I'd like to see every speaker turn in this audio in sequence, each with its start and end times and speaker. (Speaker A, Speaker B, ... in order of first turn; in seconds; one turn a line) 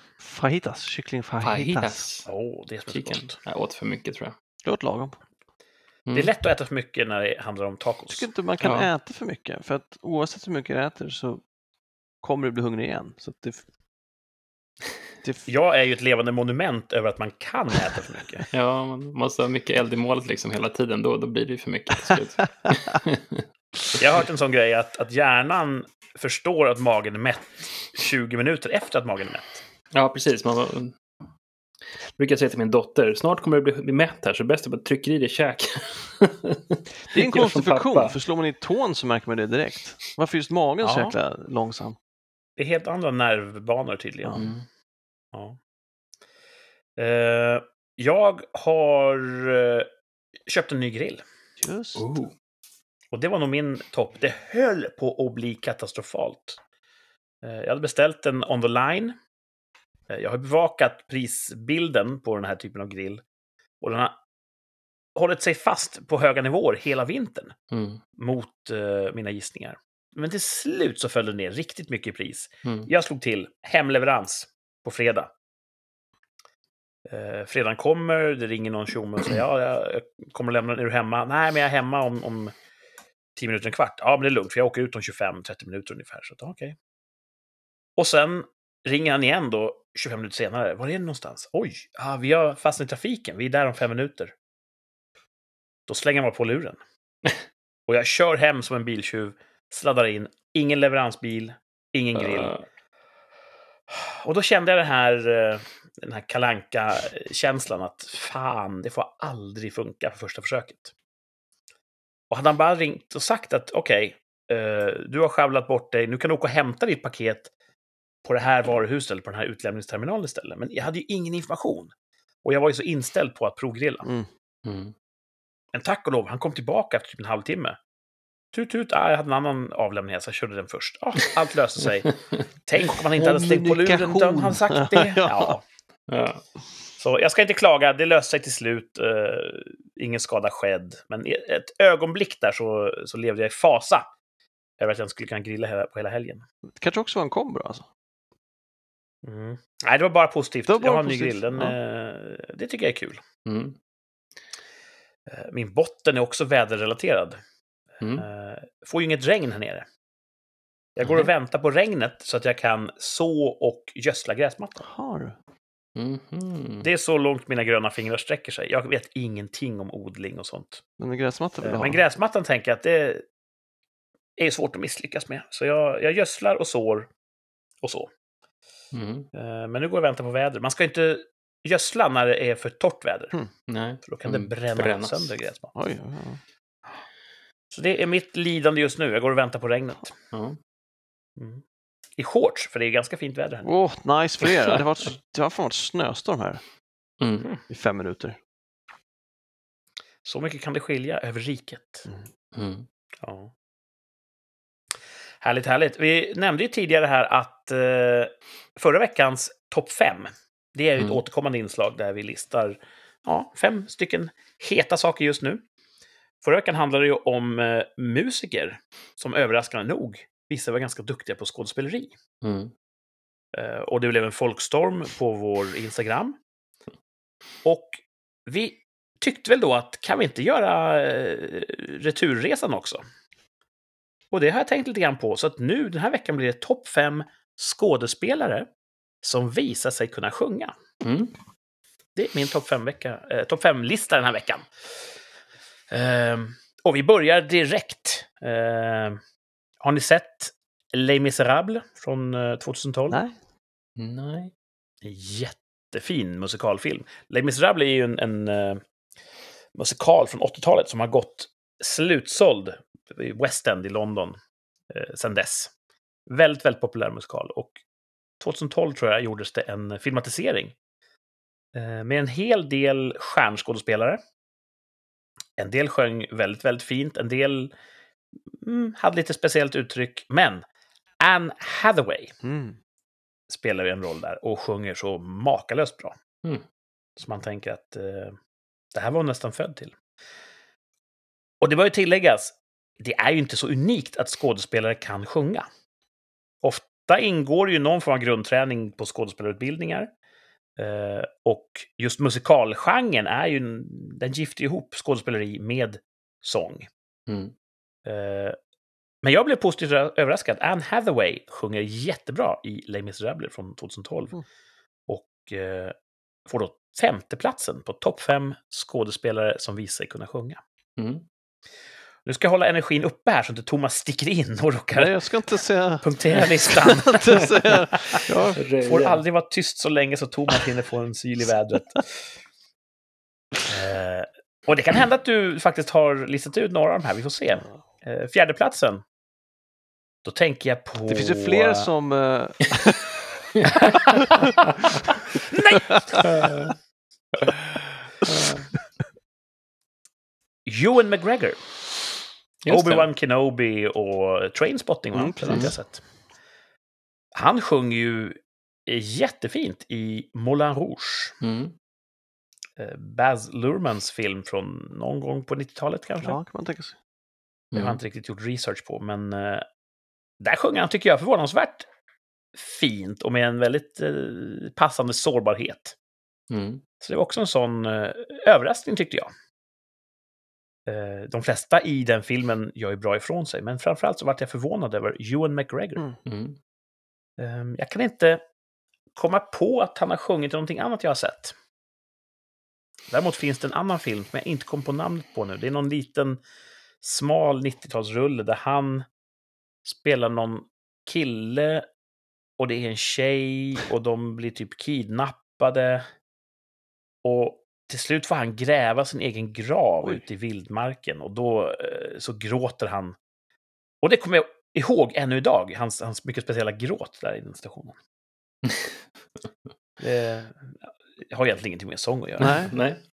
Speaker A: 0.2-2.0
Speaker B: 1.4-2.3
Speaker C: 2.2-3.4
Speaker B: 2.9-4.3
Speaker A: 4.7-5.2
Speaker C: 6.1-8.3
Speaker A: 8.1-11.4
Speaker B: 8.6-8.9
Speaker A: 12.2-13.6
Speaker C: 15.5-18.5
Speaker B: 18.5-23.4
Speaker C: 23.9-29.6
Speaker B: 29.9-31.0
Speaker B: 32.2-38.2
Speaker A: 37.1-42.0
Speaker C: 40.8-41.1
Speaker C: 42.6-44.5
Speaker A: 44.2-44.5
Speaker B: 44.4-44.6
Speaker C: 47.0-49.9
Speaker C: 50.5-51.2
Speaker A: 51.6-52.0
Speaker B: 52.0-52.3
Speaker C: 53.1-56.6
Speaker C: 57.4-59.1
Speaker C: 60.1-63.2
Speaker C: 63.8-64.2
Speaker C: 65.1-67.5
Speaker B: 67.7-68.0
Speaker C: 68.2-75.3
Speaker B: 72.6-72.9
Speaker C: 77.1-82.5
Speaker C: 83.4-86.8
Speaker C: 88.0-94.3
Speaker C: 95.9-96.8
Speaker C: 97.9-102.5
Speaker B: 102.1-102.6
Speaker C: 103.9-110.9
Speaker C: 112.3-117.5
Speaker C: 118.2-121.9
Speaker C: 122.4-124.1
Speaker A: 124.0-124.3
Speaker B: 124.6-124.9
Speaker C: 125.7-127.8
Speaker C: 128.5-132.1
Speaker C: 132.6-135.6
Speaker A: 133.1-135.6
Speaker B: 136.1-136.4
Speaker C: 137.0-144.1
Speaker C: 144.8-146.4
Speaker A: 146.8-147.9
Speaker C: 149.2-153.2
Speaker A: 150.7-151.8
Speaker B: 153.4-153.8
Speaker C: 155.3-157.4
Speaker C: 158.0-159.9
Speaker B: 158.0-158.3
Speaker C: 161.0-164.8
Speaker A: 164.8-165.4
Speaker B: 166.0-166.9
Speaker C: 166.8-170.8
Speaker A: 171.0-172.0
Speaker C: 171.6-173.2
Speaker C: 174.4-177.1
Speaker C: 177.8-178.1
Speaker B: 178.9-179.3
Speaker C: 179.3-183.4
Speaker B: 183.7-185.3
Speaker C: 184.0-185.7
Speaker A: 185.8-186.4
Speaker C: 187.7-190.1
Speaker B: 190.3-190.6
Speaker C: 191.4-191.6
Speaker C: 192.2-193.7
Speaker A: 193.6-196.6
Speaker B: 197.2-197.5
Speaker A: 197.7-198.4
Speaker C: 200.2-202.1
Speaker B: 202.5-202.9
Speaker C: 203.2-203.5
Speaker C: 205.4-215.6
Speaker C: 216.4-222.1
Speaker B: 222.4-222.7
Speaker C: 223.5-226.4
Speaker C: 227.6-233.0
Speaker C: 234.3-238.7
Speaker C: 239.2-240.7
Speaker B: 241.0-241.3
Speaker C: 242.1-244.7
Speaker C: 245.9-249.2
Speaker C: 249.8-253.2
Speaker A: 253.1-253.4
Speaker B: 254.0-254.5
Speaker C: 255.0-258.8
Speaker C: 259.8-264.4
Speaker C: 264.9-265.7
Speaker C: 266.3-267.8
Speaker C: 268.4-270.7
Speaker C: 271.7-274.2
Speaker C: 275.6-277.7
Speaker C: 278.6-280.6
Speaker C: 281.2-282.4
Speaker A: 282.4-282.8
Speaker C: 283.5-286.2
Speaker C: 287.2-288.4
Speaker C: 288.9-289.9
Speaker C: 291.6-295.7
Speaker C: 296.6-300.1
Speaker C: 300.8-306.9
Speaker B: 307.3-307.5
Speaker C: 308.1-308.6
Speaker C: 309.2-314.4
Speaker C: 315.1-315.9
Speaker C: 316.5-320.6
Speaker B: 321.0-321.2
Speaker C: 322.2-325.2
Speaker A: 324.9-328.6
Speaker C: 326.0-328.2
Speaker B: 328.6-329.2
Speaker C: 328.8-332.3
Speaker C: 333.6-339.0
Speaker C: 340.2-341.9
Speaker A: 341.1-343.1
Speaker C: 345.5-346.5
Speaker A: 345.9-346.3
Speaker B: 346.2-346.7
Speaker B: 348.2-348.7
Speaker C: 350.6-351.8
Speaker B: 352.6-353.1
Speaker C: 352.7-356.0
Speaker A: 355.1-355.8
Speaker B: 355.5-355.7
Speaker C: 357.4-361.4
Speaker B: 361.4-361.8
Speaker C: 362.8-366.4
Speaker A: 366.2-367.0
Speaker B: 367.7-368.0
Speaker C: 367.7-369.6
Speaker C: 370.4-371.9
Speaker C: 372.6-375.9
Speaker B: 376.5-376.8
Speaker C: 377.0-379.3
Speaker C: 380.9-386.0
Speaker B: 386.2-386.6
Speaker C: 387.4-388.4
Speaker C: 389.1-391.6
Speaker C: 393.1-396.4
Speaker C: 397.0-399.1
Speaker C: 399.9-401.9
Speaker C: 402.6-406.1
Speaker C: 407.2-413.1
Speaker C: 414.0-418.0
Speaker B: 418.6-419.0
Speaker C: 420.0-422.6
Speaker A: 422.4-422.8
Speaker B: 422.4-423.0